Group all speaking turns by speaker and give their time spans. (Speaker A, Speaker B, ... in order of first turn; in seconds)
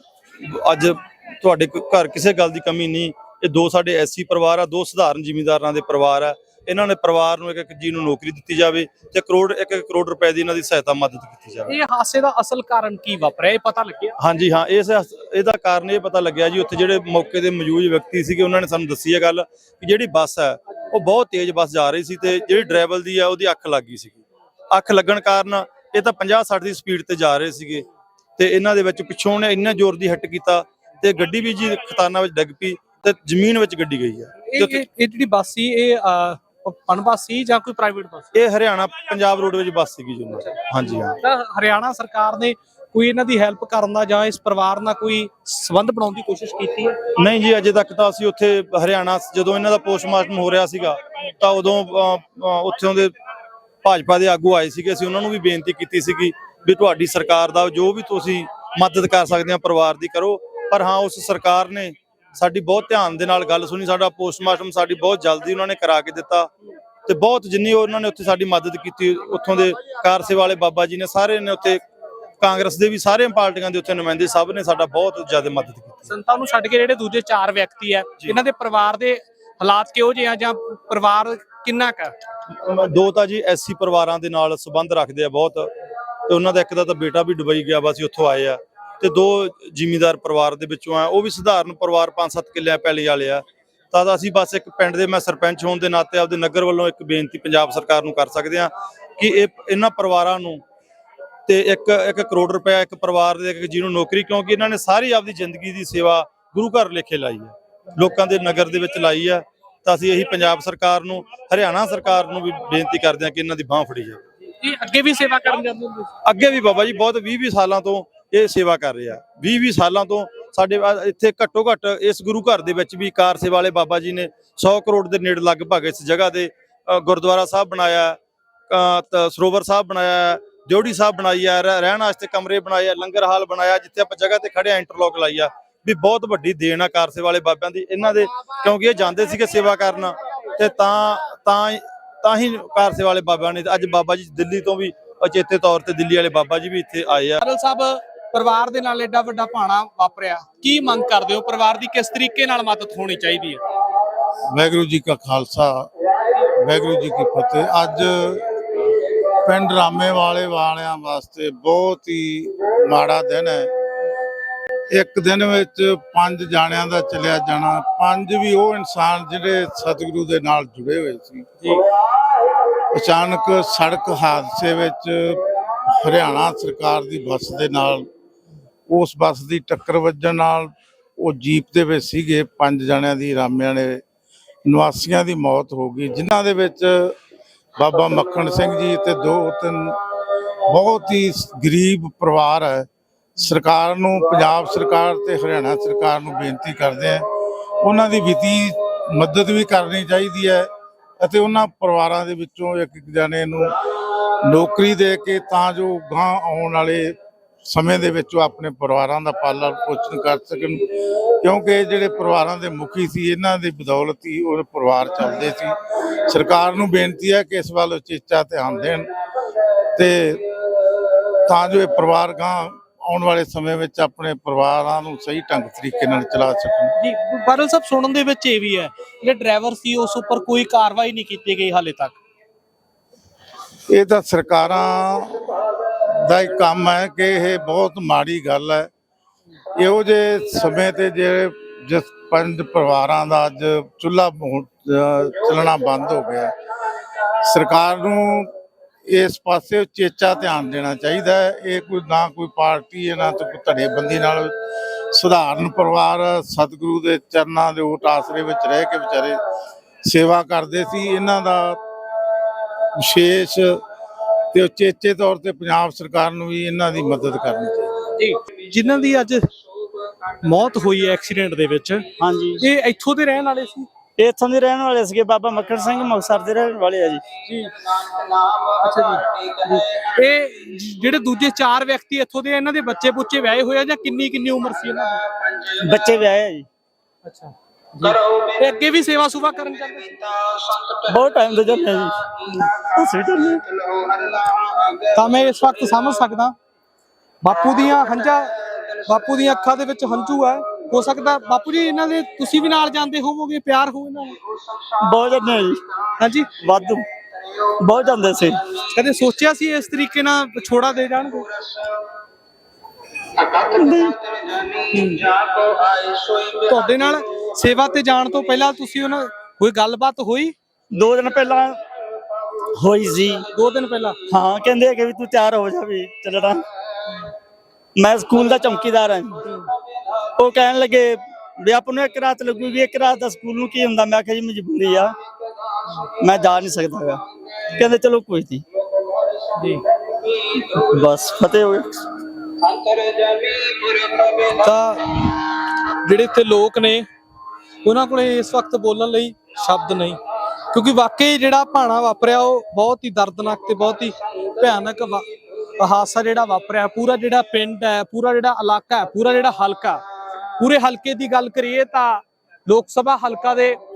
Speaker A: 0.4-11.7, 14.2-27.9, 28.4-34.8, 38.3-41.2, 47.2-53.1, 53.8-66.5, 67.0-71.8, 72.4-76.1, 82.5-85.7, 86.2-100.6, 101.5-114.2, 116.2-128.2, 128.7-147.4
Speaker B: 11.7-14.2, 34.5-38.3, 41.2-47.0, 76.1-82.2, 114.6-116.1, 147.4-153.6, 227.0-232.2, 268.1-269.5, 270.1-273.9, 277.4-277.9, 278.5-285.4, 287.2-290.4, 295.0-296.5, 297.4-304.4, 306.2-306.5, 308.8-311.8, 314.7-315.4, 316.3-320.5, 323.5-324.2, 339.5-339.8, 342.9-343.3, 344.2-347.1, 347.8-350.2, 350.7-355.3, 355.8-360.0, 360.6-363.8
Speaker C: 154.5-163.7, 164.9-171.8, 172.9-178.1, 178.9-184.0, 184.7-187.1, 187.8-190.0, 190.6-197.2, 197.8-200.7, 201.2-203.7, 204.4-219.1, 219.9-220.5, 221.4-226.9, 233.9-238.9, 239.8-246.5, 247.2-248.5, 249.1-254.5, 255.1-259.4, 260.0-261.8, 262.9-263.8, 264.5-268.1
Speaker D: 272.2-272.6, 274.2-277.2, 285.5-286.7, 290.7-294.4, 304.9-305.8, 306.6-308.7, 313.4-314.3, 320.9-321.8, 322.5-323.4, 324.3-326.6, 327.9-329.6, 330.4-335.1, 336.0-338.6, 340.1-342.1